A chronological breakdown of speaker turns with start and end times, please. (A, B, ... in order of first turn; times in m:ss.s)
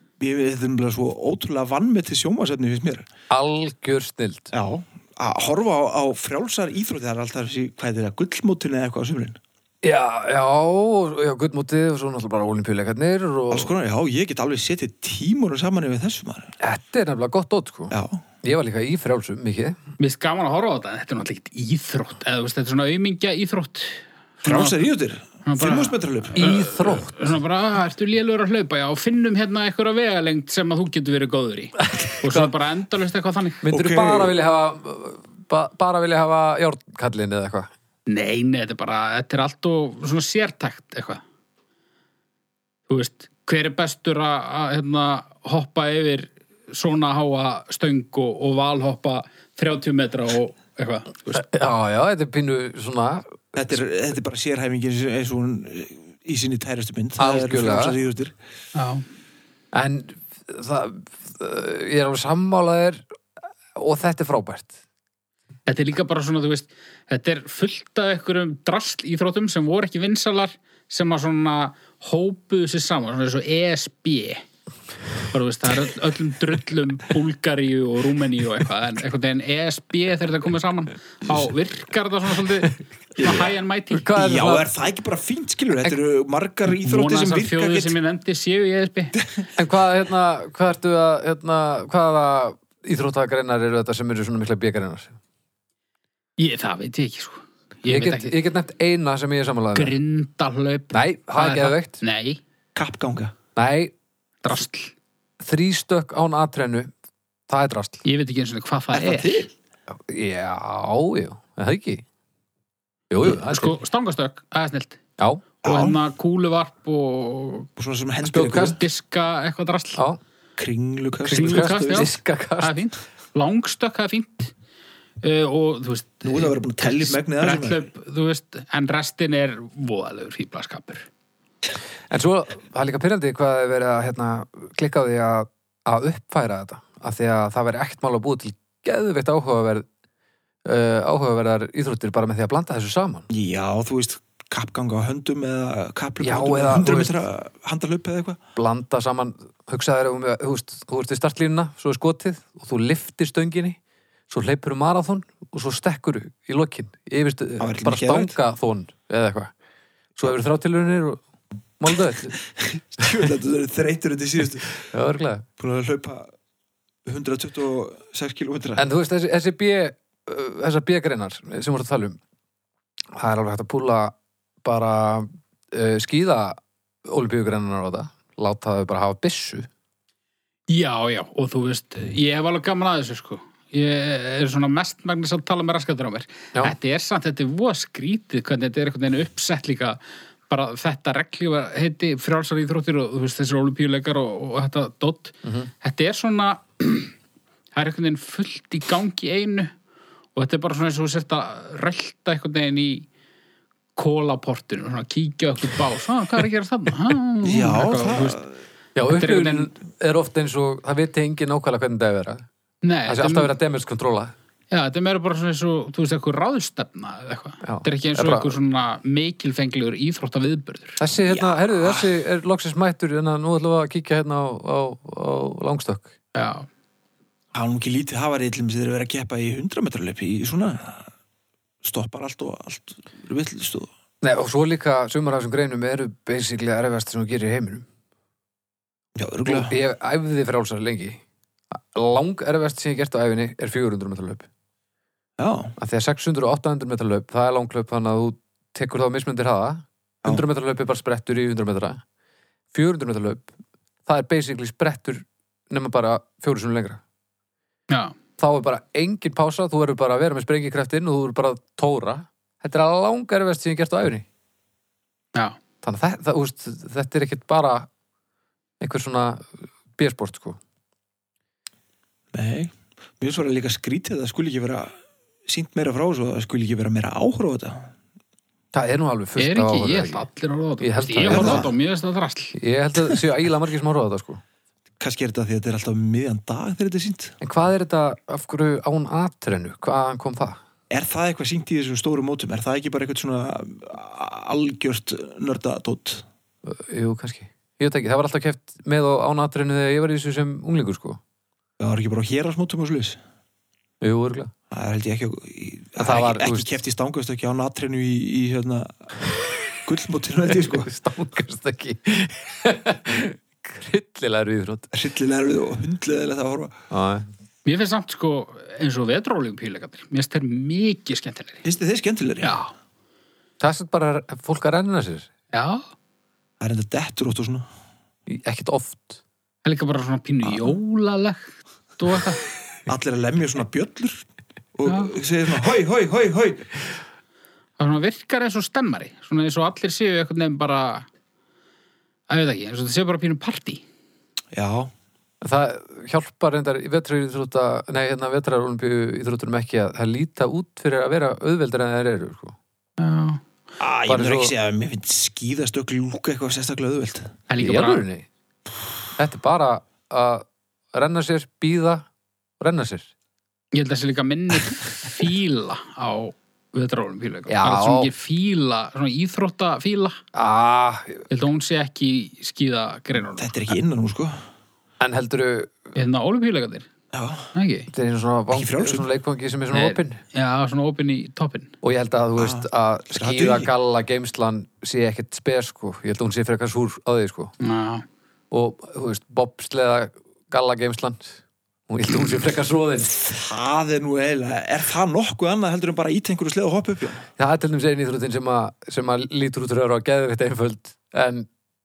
0:00.2-0:03.1 A
0:03.3-0:04.5 B
0:04.5-0:09.4 A
0:09.8-0:13.7 B
0:13.5-0:16.6 A
0:16.6-0:19.8 B
0:17.9-0:18.2 A
0:20.0-0:24.9 C
0:24.4-0:26.4 A
0:25.4-0:33.6 C
0:26.4-0:27.2 B
0:32.0-0:32.5 B
0:33.6-0:37.7 B
0:33.7-0:34.4 A
0:38.1-0:41.2 C
0:42.9-0:51.5 C
0:51.3-0:53.8 B
0:53.6-0:58.3 A
0:57.2-0:58.0 B
0:58.8-0:59.0 C
0:59.7-1:03.0 B
1:03.8-1:04.7 B
1:05.7-1:14.4 C
1:15.3-1:24.1 C
1:23.2-1:23.5 A
1:23.9-1:24.7 B
1:24.2-1:28.0 A
1:26.7-1:29.2 C
1:29.2-1:29.5 A
1:29.6-1:35.1 B
1:36.4-1:38.4 C
1:37.9-1:40.0 B
1:39.8-1:42.4 C
1:40.9-1:42.0 B
1:42.8-1:43.3 A
1:43.6-1:43.9 B
1:44.4-1:44.9 C
1:45.4-1:46.9 B
1:47.5-1:48.0 B
1:48.0-1:49.5 C
1:48.9-1:49.5 A
1:49.9-1:52.0 B
1:53.1-1:53.8 B
1:53.3-1:55.0 C
1:55.2-1:55.4 B
1:55.6-1:57.7 C
1:55.6-1:56.0 A
1:57.8-1:58.8 A
1:58.2-1:58.8 B
1:58.6-2:00.0 C
2:00.6-2:02.1 A
2:01.2-2:02.8 B
2:01.3-2:04.5 C
2:05.2-2:11.1 C
2:06.2-2:07.9 A
2:12.1-2:19.9 B
2:20.6-2:23.3 B
2:23.3-2:28.4 A
2:26.2-2:27.2 B
2:28.6-2:33.8 B
2:34.3-2:39.5 B
2:37.6-2:38.4 A
2:40.2-2:41.2 B
2:41.8-2:42.4 B
2:42.6-2:44.8 A
2:43.0-2:43.3 B
2:44.9-2:45.4 B
2:45.6-2:46.3 A
2:47.1-2:48.8 A
2:48.8-2:52.2 B
2:53.2-2:59.7 B
3:00.7-3:17.1 C
3:15.4-3:15.7 B
3:17.7-3:19.7 C
3:20.4-3:23.1 C
3:24.0-3:28.4 C
3:27.4-3:28.5 A
3:29.0-3:32.5 B
3:29.1-3:29.7 C
3:32.8-3:33.5 C
3:33.1-3:34.3 B
3:34.7-3:41.0 C
3:37.6-3:38.6 B
3:41.0-3:46.1 B
3:41.3-3:42.1 A
3:46.4-3:46.7 C
3:47.5-3:51.1 A
3:51.8-3:53.9 A
3:54.2-3:57.9 B
3:59.2-3:59.7 A
3:59.4-4:01.2 B
4:01.7-4:04.5 B
4:05.4-4:05.8 A
4:05.8-4:12.0 B
4:12.7-4:13.5 B
4:14.1-4:17.0 B
4:18.4-4:24.3 B
4:25.8-4:27.9 B
4:28.8-4:30.6 B
4:32.3-4:35.0 A
4:35.5-4:37.9 A
4:38.7-4:40.2 B
4:39.4-4:42.6 C
4:40.8-4:41.7 B
4:41.3-4:41.7 A
4:42.6-4:44.4 B
4:45.0-4:47.4 A
4:47.4-4:50.6 B
4:50.9-4:56.3 A
4:56.6-5:01.2 B
5:01.8-5:03.2 A
5:04.0-5:04.5 B
5:04.7-5:09.1 A
5:06.0-5:06.7 B
5:09.7-5:10.9 A
5:10.6-5:14.9 B
5:14.9-5:16.8 A
5:16.9-5:17.3 B
5:17.6-5:21.6 C
5:21.6-5:22.6 A
5:22.4-5:22.7 C
5:23.6-5:25.3 B
5:25.5-5:25.8 C
5:26.6-5:27.7 A
5:28.3-5:29.2 B
5:29.6-5:32.4 C
5:32.9-5:36.7 A
5:34.9-5:35.1 C
5:37.8-5:41.1 C
5:42.3-5:43.8 C
5:44.5-5:44.9 A
5:45.4-5:52.6 B
5:53.0-5:53.4 C
5:53.8-5:57.4 A
5:54.1-5:54.5 B
5:57.5-5:58.0 C
5:57.6-5:58.3 B
5:59.2-6:02.1 B
6:02.6-6:03.1 B
6:03.7-6:10.2 C
6:07.5-6:08.1 B
6:10.3-6:11.2 B
6:11.3-6:13.6 C
6:13.4-6:14.4 A
6:15.0-6:15.8 B
6:16.0-6:16.9 C
6:17.1-6:17.5 A
6:17.5-6:17.9 C
6:17.9-6:20.2 B
6:18.5-6:19.1 A
6:19.7-6:21.7 C
6:21.8-6:27.5 B
6:22.4-6:23.7 A
6:27.6-6:28.0 C
6:28.5-6:33.4 B
6:33.3-6:37.3 A
6:37.4-6:41.5 B